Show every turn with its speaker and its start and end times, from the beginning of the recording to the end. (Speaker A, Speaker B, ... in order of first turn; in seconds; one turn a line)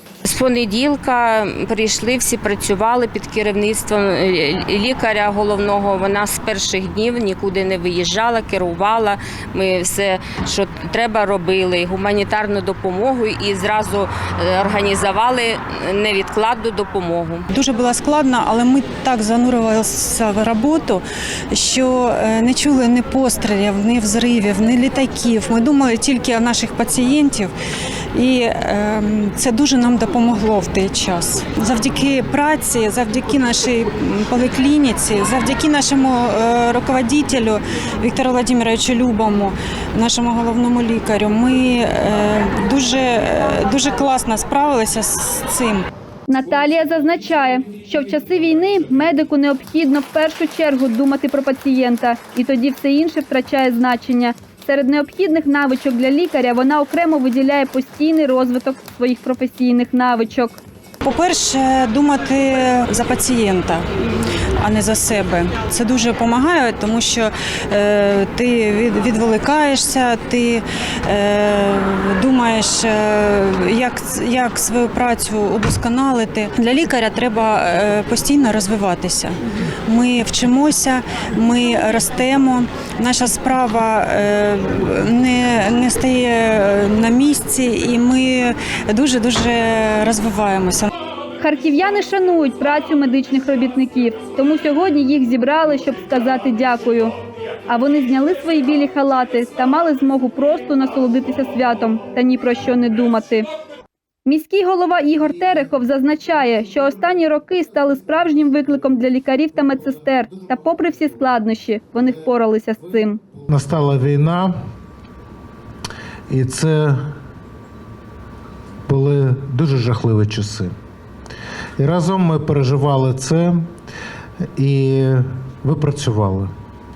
Speaker A: 0.2-17.5
Speaker B: 17.5-27.5
Speaker B: 28.1-45.9
Speaker C: 46.3-60.6
Speaker B: 61.0-63.9
Speaker B: 64.6-90.9
Speaker C: 91.4-97.1
Speaker C: 97.7-103.4
Speaker C: 104.3-113.2
Speaker D: 113.5-114.6
Speaker D: 116.3-117.2
Speaker D: 118.9-120.8
Speaker D: 121.8-123.7
Speaker D: 124.6-126.5